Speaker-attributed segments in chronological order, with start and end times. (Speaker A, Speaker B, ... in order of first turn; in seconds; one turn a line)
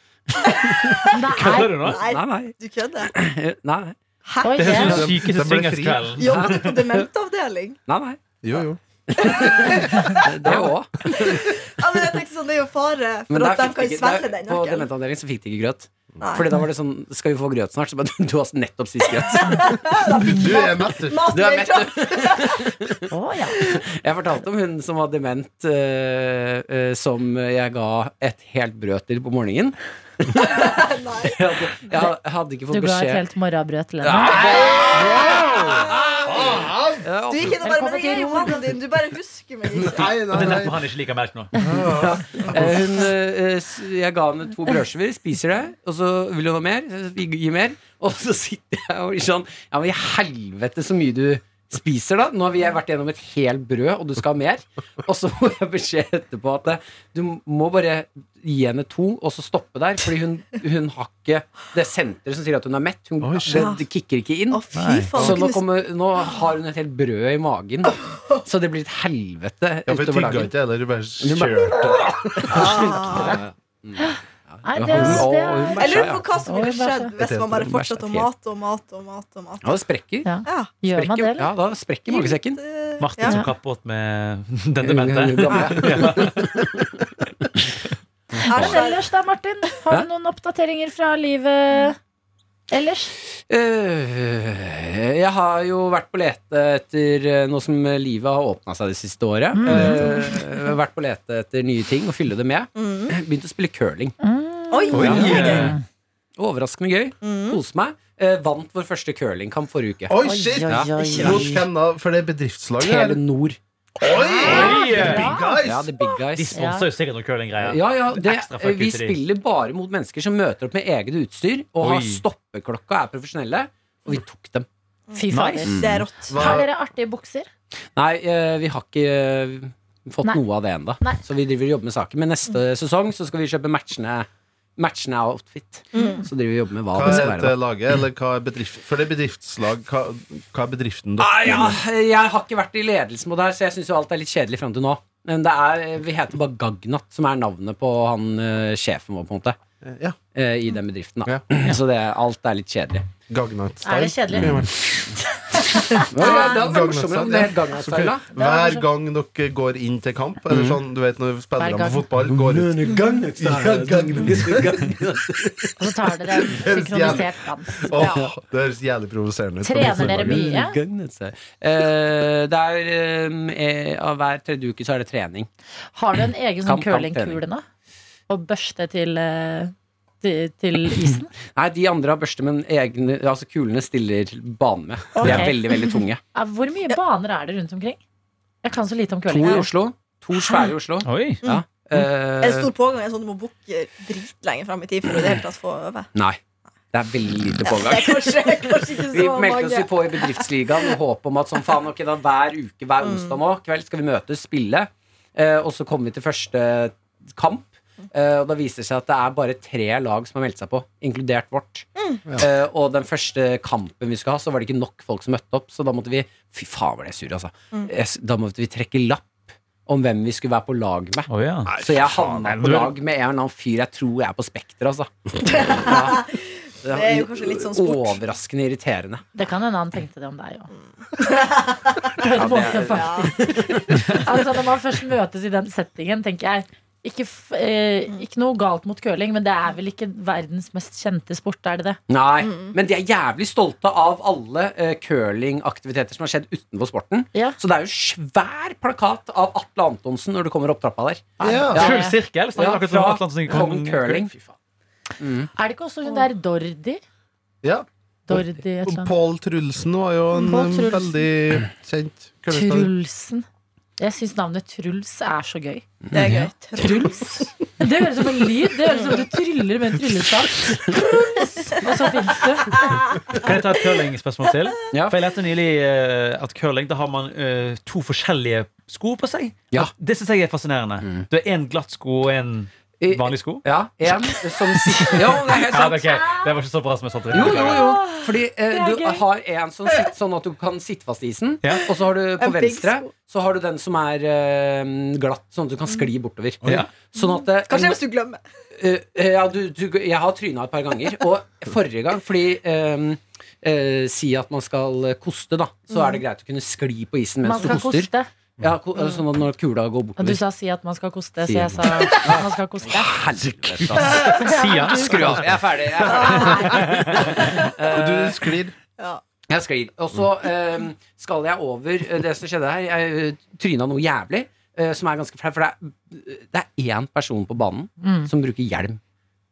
Speaker A: 0.4-4.0
Speaker B: 1.1-1.8
Speaker C: 1.4-2.0
Speaker D: 1.8-3.1
Speaker D: 4.2-5.1
Speaker B: 4.4-5.0
Speaker C: 4.6-6.7
Speaker E: 4.6-6.2
Speaker D: 6.2-7.8
Speaker A: 6.2-7.0
Speaker A: 7.9-8.2
Speaker E: 8.4-10.1
Speaker A: 9.1-11.5
Speaker D: 9.2-14.9
Speaker A: 13.3-19.7
Speaker D: 16.2-16.6
Speaker D: 19.2-22.7
Speaker E: 20.2-21.4
Speaker A: 21.3-23.0
Speaker B: 23.1-23.6
Speaker A: 23.6-33.2
Speaker D: 30.4-32.0
Speaker B: 32.7-34.4
Speaker A: 34.0-37.6
Speaker E: 34.2-37.1
Speaker D: 37.3-40.3
Speaker B: 37.6-38.7
Speaker E: 39.7-40.8
Speaker C: 40.2-41.5
Speaker E: 41.6-42.8
Speaker A: 41.9-64.6
Speaker E: 63.2-63.7
Speaker D: 63.5-63.8
Speaker D: 64.5-65.7
Speaker C: 64.7-65.1
Speaker A: 65.1-70.5
Speaker E: 69.9-72.8
Speaker A: 71.2-76.4
Speaker D: 72.5-73.4
Speaker B: 74.0-77.1
Speaker D: 75.7-79.8
Speaker E: 77.2-77.8
Speaker A: 77.6-78.3
Speaker A: 79.6-82.6
Speaker B: 80.2-81.5
Speaker D: 80.4-80.7
Speaker D: 82.1-83.4
Speaker C: 83.0-86.7
Speaker B: 83.2-83.5
Speaker A: 84.8-86.9
Speaker A: 88.4-88.8
Speaker B: 88.4-92.0
Speaker D: 88.5-89.0
Speaker B: 92.7-93.1
Speaker A: 93.5-104.2
Speaker B: 99.5-100.4
Speaker D: 102.8-103.1
Speaker B: 104.2-105.8
Speaker D: 104.7-105.7
Speaker C: 104.9-105.8
Speaker A: 104.9-105.7
Speaker A: 106.4-111.5
Speaker D: 107.2-107.6
Speaker E: 110.1-113.2
Speaker B: 110.2-111.6
Speaker A: 112.8-113.6
Speaker E: 114.0-115.9
Speaker B: 114.1-115.5
Speaker C: 114.4-115.4
Speaker A: 115.6-116.6
Speaker C: 116.3-119.2
Speaker B: 116.5-116.9
Speaker A: 117.6-124.7
Speaker C: 121.8-122.2
Speaker B: 125.1-127.5
Speaker C: 125.3-125.8
Speaker A: 125.7-126.1
Speaker D: 125.7-126.5
Speaker E: 126.2-126.7
Speaker A: 127.9-137.6
Speaker D: 135.9-136.3
Speaker B: 135.9-136.2
Speaker E: 136.9-141.8
Speaker A: 141.2-149.6
Speaker E: 149.8-150.2
Speaker A: 150.3-153.1
Speaker E: 153.3-155.1
Speaker B: 153.8-156.7
Speaker A: 156.0-158.2
Speaker E: 156.2-162.8
Speaker B: 158.3-158.8
Speaker A: 160.5-160.8
Speaker B: 161.6-162.1
Speaker A: 162.2-165.8
Speaker E: 163.4-164.9
Speaker B: 165.8-167.9
Speaker E: 166.4-167.3
Speaker E: 167.8-170.4
Speaker A: 167.9-168.3
Speaker B: 169.6-170.8
Speaker A: 169.8-175.5
Speaker B: 175.9-177.6
Speaker A: 176.6-177.4
Speaker B: 178.3-181.3
Speaker A: 181.5-186.2
Speaker B: 185.1-185.6
Speaker B: 186.3-188.0
Speaker B: 188.6-189.7
Speaker A: 189.3-192.7
Speaker C: 191.0-191.4
Speaker D: 192.3-196.1
Speaker A: 196.1-196.4
Speaker A: 196.9-226.3
Speaker D: 197.6-200.9
Speaker D: 203.0-203.4
Speaker D: 212.0-212.2
Speaker C: 221.3-221.8
Speaker E: 221.7-222.6
Speaker C: 222.4-222.9
Speaker D: 225.4-228.2
Speaker A: 226.8-229.2
Speaker B: 229.3-230.7
Speaker D: 231.1-232.1
Speaker B: 232.2-242.0
Speaker A: 232.2-233.8
Speaker D: 232.8-234.1
Speaker A: 242.1-254.5
Speaker D: 242.4-242.7
Speaker B: 251.4-252.2
Speaker E: 251.4-251.9
Speaker C: 251.7-254.3
Speaker A: 255.2-255.5
Speaker B: 255.6-257.0
Speaker E: 257.6-262.9
Speaker B: 258.3-259.1
Speaker B: 260.3-261.3
Speaker B: 262.5-263.4
Speaker B: 264.0-265.9
Speaker A: 266.1-267.1
Speaker D: 266.1-267.4
Speaker B: 267.8-272.9
Speaker D: 268.9-269.2
Speaker D: 272.9-273.5
Speaker C: 273.3-283.6
Speaker A: 274.9-275.2
Speaker A: 281.0-281.3
Speaker A: 283.0-286.2
Speaker C: 285.0-287.9
Speaker B: 285.9-286.5
Speaker A: 287.3-298.0
Speaker B: 287.5-289.2
Speaker D: 292.4-293.1
Speaker C: 296.6-296.9
Speaker D: 297.2-298.4
Speaker A: 298.8-310.4
Speaker D: 305.9-306.2
Speaker B: 307.4-308.3
Speaker B: 310.2-313.1
Speaker A: 311.4-318.5
Speaker C: 313.3-317.4
Speaker B: 314.4-315.1
Speaker D: 316.0-317.7
Speaker E: 317.8-318.7
Speaker A: 319.5-329.0
Speaker B: 328.0-328.3